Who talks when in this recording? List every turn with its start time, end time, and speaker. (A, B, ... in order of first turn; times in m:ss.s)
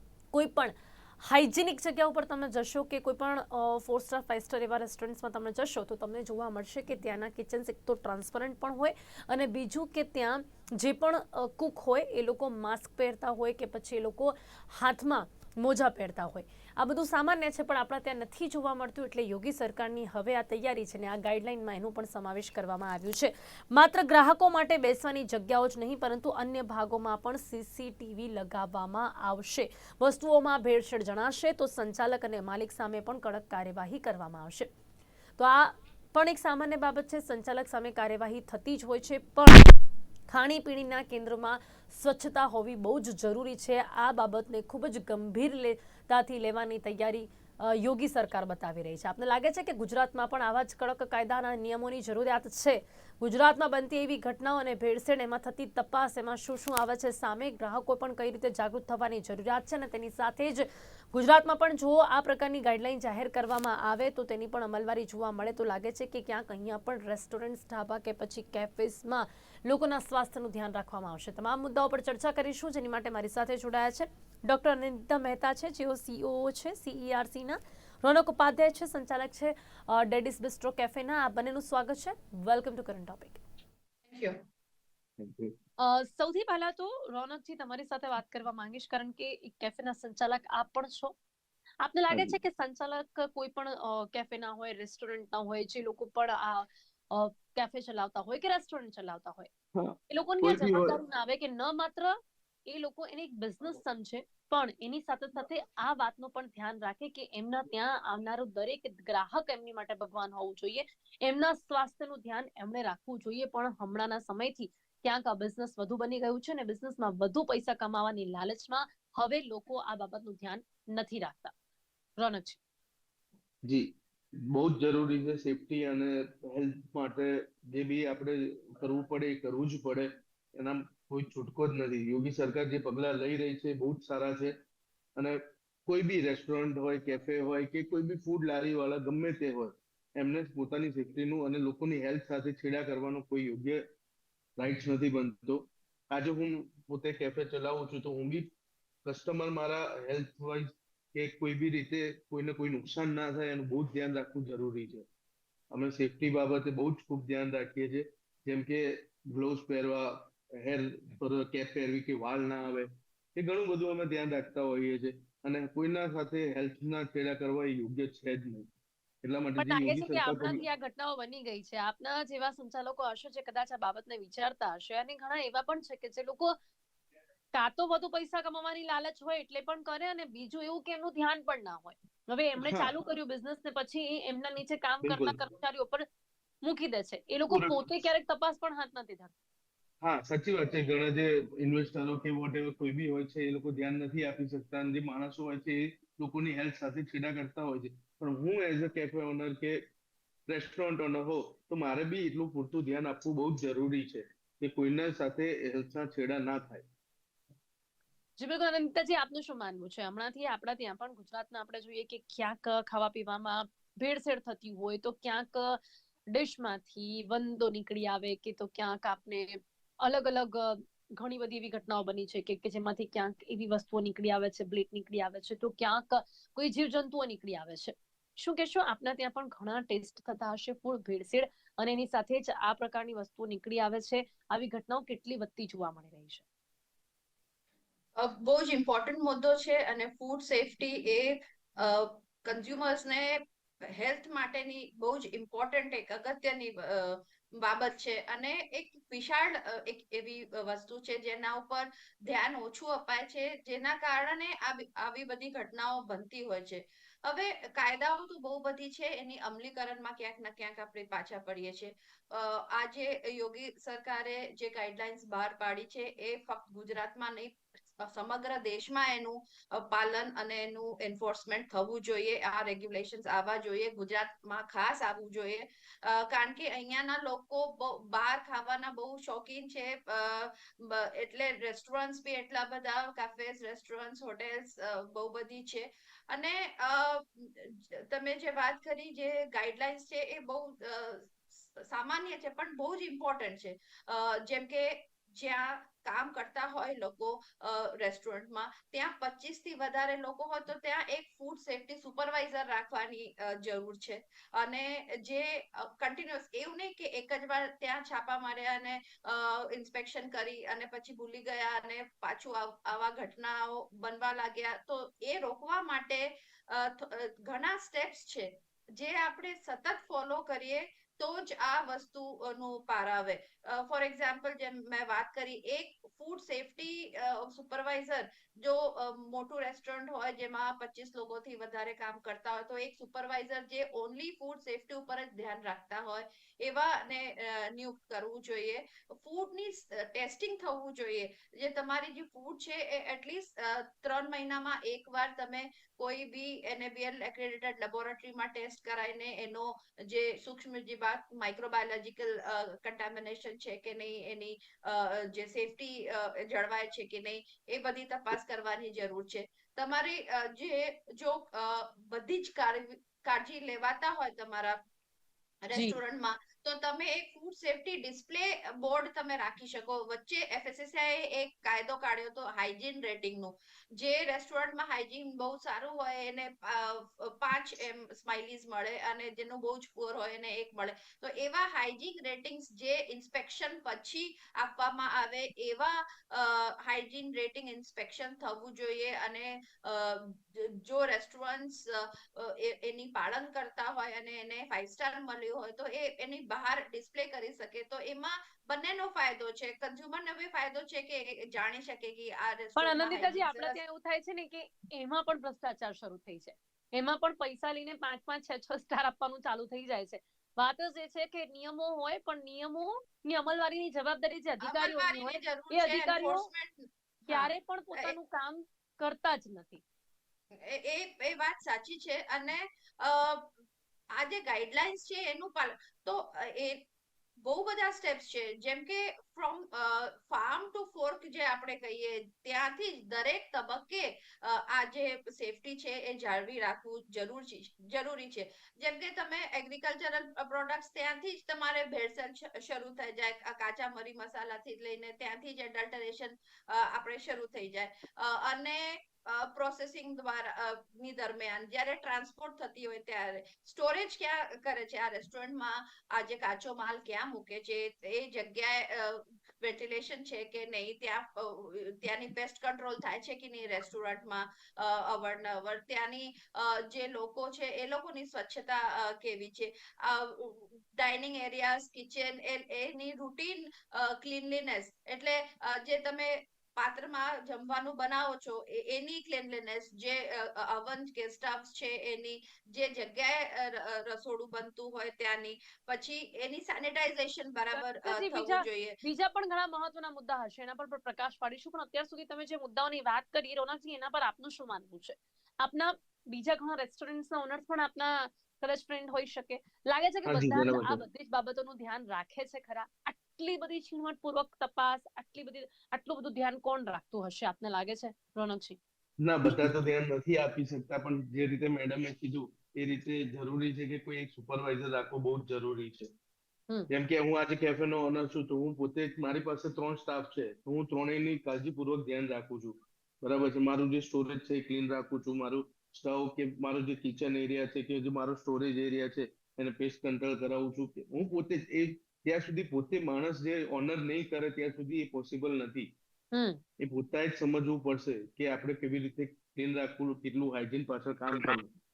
0:00.3-0:34.7 A
0:35.4-0:39.7 A
0:40.3-1:23.4 A
1:24.1-1:24.4 B
1:25.2-1:25.5 C
1:25.8-1:31.2 A
1:31.8-1:39.5 A
1:32.1-1:32.4 C
1:39.8-1:41.0 C
1:40.1-1:42.2 A
1:42.7-2:01.5 A
2:02.2-2:02.6 A
2:03.6-2:03.9 C
2:04.4-2:14.5 C
2:15.2-2:23.8 C
2:24.6-2:28.5 C
2:29.0-2:35.0 C
2:35.7-2:48.7 C
2:49.2-2:50.6 C
2:49.6-2:56.5 A
2:57.5-3:06.1 A
3:02.6-3:03.0 C
3:05.0-3:05.4 C
3:06.6-3:09.3 A
3:07.5-3:07.8 C
3:10.0-3:19.8 C
3:20.5-3:26.8 C
3:28.4-3:35.8 A
3:36.3-3:56.4 A
3:58.2-6:04.8 B
6:05.6-6:43.8 B
6:05.7-6:06.0 A
6:42.8-6:56.5 A
6:54.6-6:58.1 B
6:57.3-6:59.8 A
7:00.5-7:03.5 B
7:04.1-7:06.8 B
7:07.4-8:09.0 B
8:07.7-8:28.8 A
8:20.3-8:21.0 C
8:29.2-8:36.1 C
8:29.5-8:29.8 A
8:36.9-8:55.9 C
8:56.3-8:56.6 A
8:56.8-9:01.7 C